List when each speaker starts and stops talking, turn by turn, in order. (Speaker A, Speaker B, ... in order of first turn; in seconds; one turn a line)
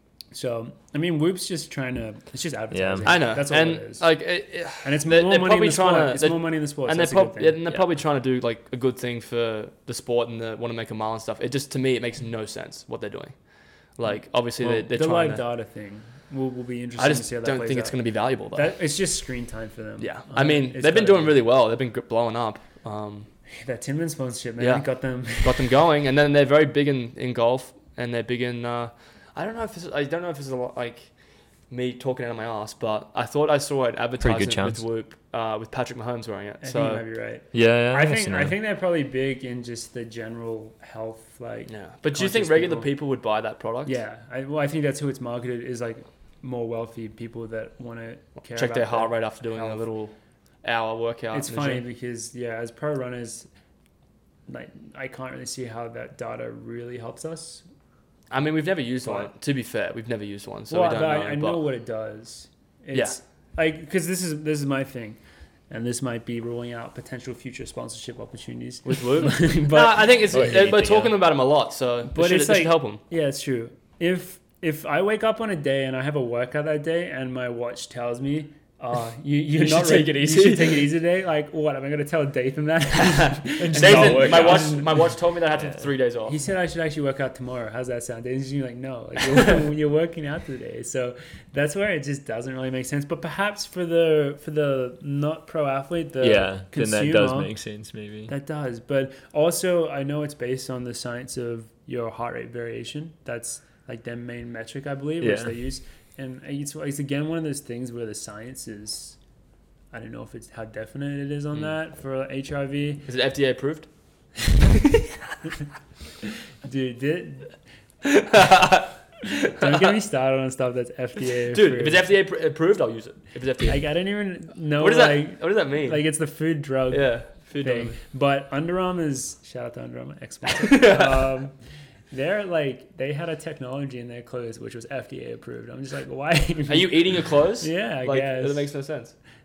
Speaker A: 0.3-4.1
Speaker B: 2.7-3.2
Speaker C: 3.0-15.4
Speaker A: 4.8-7.8
Speaker A: 14.6-18.0
Speaker C: 17.0-18.7
Speaker A: 18.5-21.3
Speaker C: 20.0-23.3
Speaker A: 23.6-25.8
Speaker C: 24.6-24.9
Speaker C: 25.4-31.1
Speaker C: 31.7-37.0
Speaker B: 34.2-34.8
Speaker A: 36.6-42.9
Speaker B: 37.5-38.5
Speaker C: 41.7-44.0
Speaker A: 43.8-49.8
Speaker C: 48.5-51.8
Speaker A: 51.3-53.5
Speaker A: 54.5-57.6
Speaker C: 58.3-61.6
Speaker A: 60.7-65.2
Speaker A: 65.7-70.2
Speaker C: 68.8-73.0
Speaker B: 70.3-71.2
Speaker A: 72.1-85.1
Speaker C: 79.7-80.0
Speaker B: 79.8-80.8
Speaker B: 83.6-85.9
Speaker C: 83.7-86.4
Speaker A: 86.2-97.5
Speaker B: 96.2-98.3
Speaker A: 98.3-109.2
Speaker B: 105.2-105.5
Speaker A: 109.9-113.1
Speaker C: 113.1-113.9
Speaker A: 116.6-117.6
Speaker C: 118.0-118.9
Speaker A: 119.3-122.0
Speaker C: 121.5-123.8
Speaker A: 123.7-131.5
Speaker C: 124.8-126.0
Speaker C: 126.9-128.0
Speaker C: 130.6-131.2
Speaker A: 132.1-138.8
Speaker C: 136.7-139.2